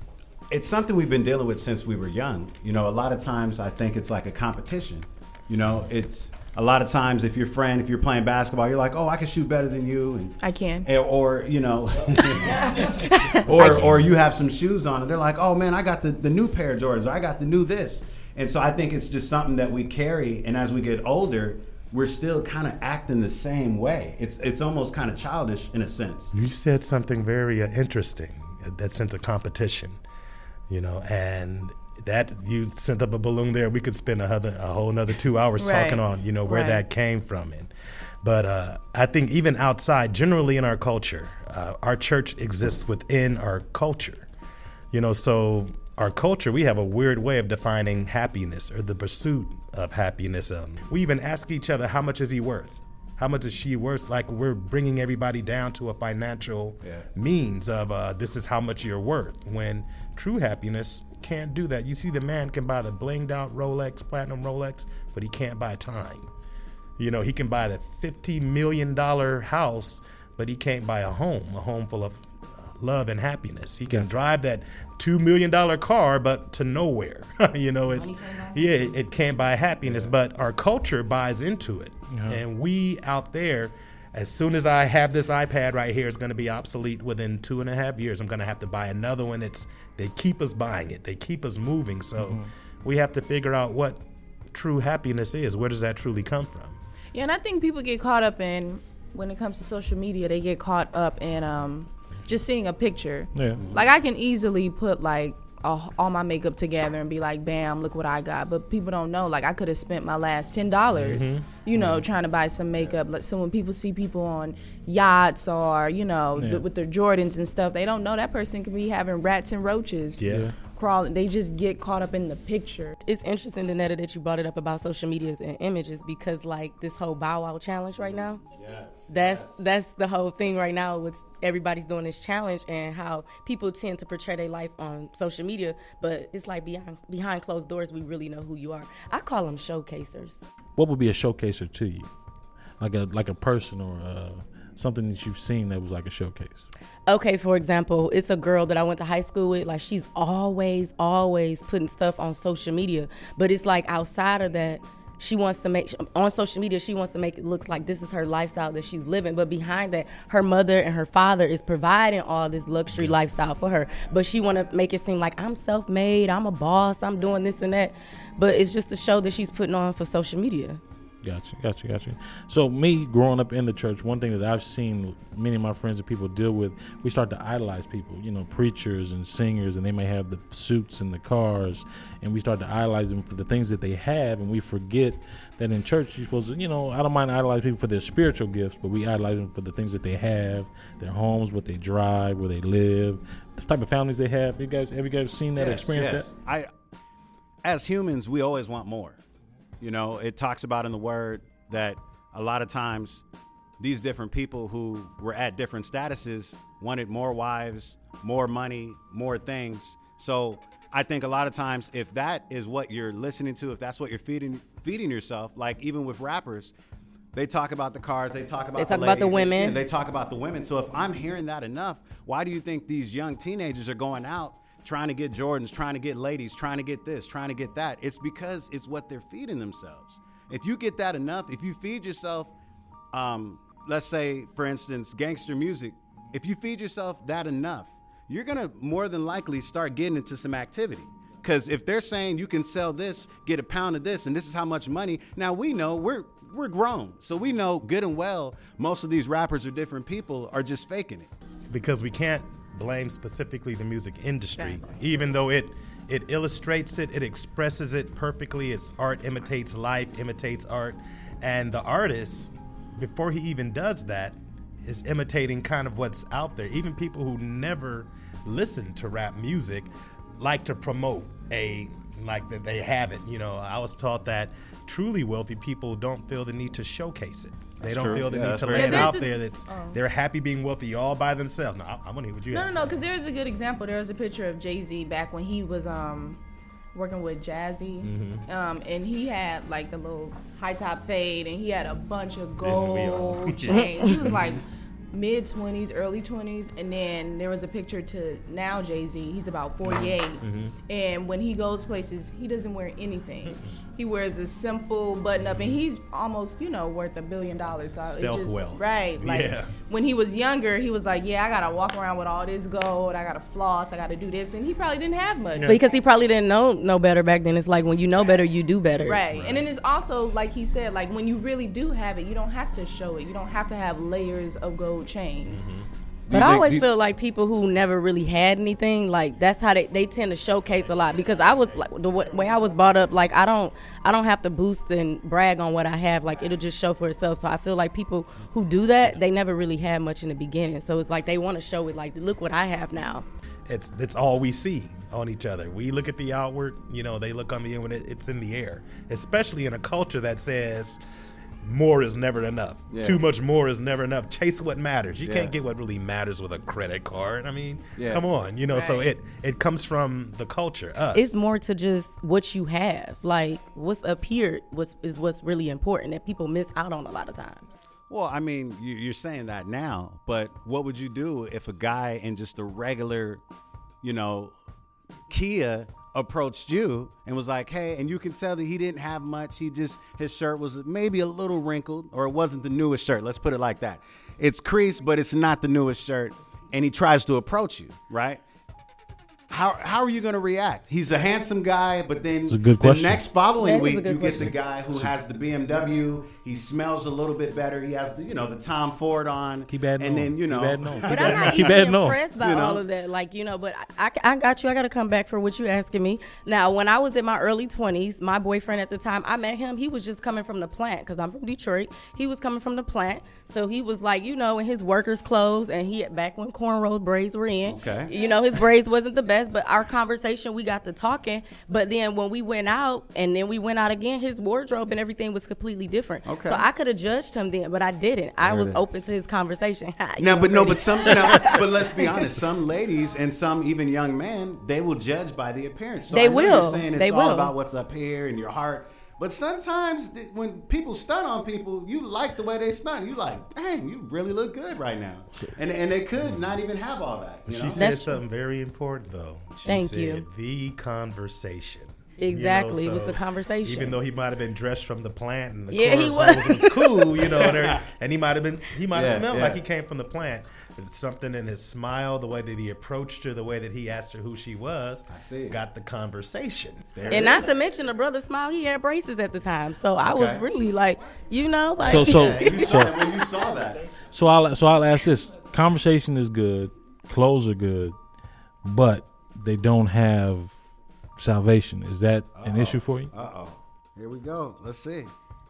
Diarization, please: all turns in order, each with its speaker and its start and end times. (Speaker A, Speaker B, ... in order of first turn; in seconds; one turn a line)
Speaker A: 0.5-12.9
Speaker B: 10.4-10.9
Speaker C: 12.3-13.5
Speaker A: 13.4-26.3
Speaker D: 13.5-14.0
Speaker D: 26.3-30.0
Speaker D: 30.7-37.7
Speaker B: 35.6-36.8
Speaker D: 38.2-44.3
Speaker D: 44.9-66.3
Speaker D: 67.0-96.8
Speaker B: 78.2-78.8
Speaker A: 79.8-80.1
Speaker E: 82.1-82.4
Speaker E: 92.2-92.5
Speaker B: 97.1-123.0
Speaker E: 103.3-103.6
Speaker A: 103.5-103.8
Speaker D: 111.0-111.5
Speaker E: 116.3-116.6
Speaker D: 120.2-120.5
Speaker E: 120.2-120.5
Speaker C: 123.0-128.4
Speaker A: 128.5-129.6
Speaker C: 129.1-140.4
Speaker E: 140.8-142.1
Speaker E: 142.8-146.7
Speaker C: 147.1-170.8
Speaker E: 171.2-196.3
Speaker A: 195.6-196.7
Speaker A: 197.6-199.2
Speaker A: 199.8-203.2
Speaker A: 203.8-216.7
Speaker A: 217.3-232.5
Speaker C: 218.8-219.8
Speaker A: 233.1-251.3
Speaker D: 251.5-282.9
Speaker C: 254.5-254.8
Speaker A: 277.8-279.1
Speaker B: 278.7-280.0
Speaker B: 282.5-286.4
Speaker B: 286.9-316.0
Speaker D: 288.0-288.4
Speaker D: 292.6-294.6
Speaker D: 299.8-300.7
Speaker D: 303.4-303.7
Speaker D: 305.4-305.8
Speaker D: 308.0-309.7
Speaker C: 315.6-319.2
Speaker B: 318.2-318.4
Speaker B: 319.0-325.6
Speaker D: 319.3-319.6
Speaker D: 325.4-325.9
Speaker A: 326.3-326.8
Speaker C: 326.3-343.2
Speaker D: 343.7-351.0
Speaker D: 351.6-361.3
Speaker A: 352.9-353.2
Speaker A: 355.2-355.5
Speaker A: 357.9-358.2
Speaker B: 358.6-359.1
Speaker C: 361.1-367.6
Speaker A: 368.1-373.4
Speaker A: 374.0-374.6
Speaker A: 375.3-388.4
Speaker A: 389.5-402.8
Speaker E: 392.5-393.3
Speaker C: 393.6-394.5
Speaker E: 399.7-402.2
Speaker C: 401.0-432.2
Speaker A: 417.6-418.1
Speaker A: 426.2-426.6
Speaker A: 428.4-428.9
Speaker A: 430.2-447.9
Speaker C: 436.1-437.5
Speaker D: 447.5-467.2
Speaker C: 447.7-448.2
Speaker C: 449.6-450.2
Speaker C: 452.2-454.0
Speaker C: 455.7-457.2
Speaker A: 457.4-457.8
Speaker A: 458.9-459.6
Speaker A: 465.1-465.6
Speaker A: 466.9-467.5
Speaker C: 467.1-473.1
Speaker A: 470.1-470.4
Speaker E: 471.8-473.0
Speaker A: 471.8-473.9
Speaker E: 474.0-477.9
Speaker E: 478.6-480.6
Speaker E: 481.2-483.1
Speaker A: 482.3-485.1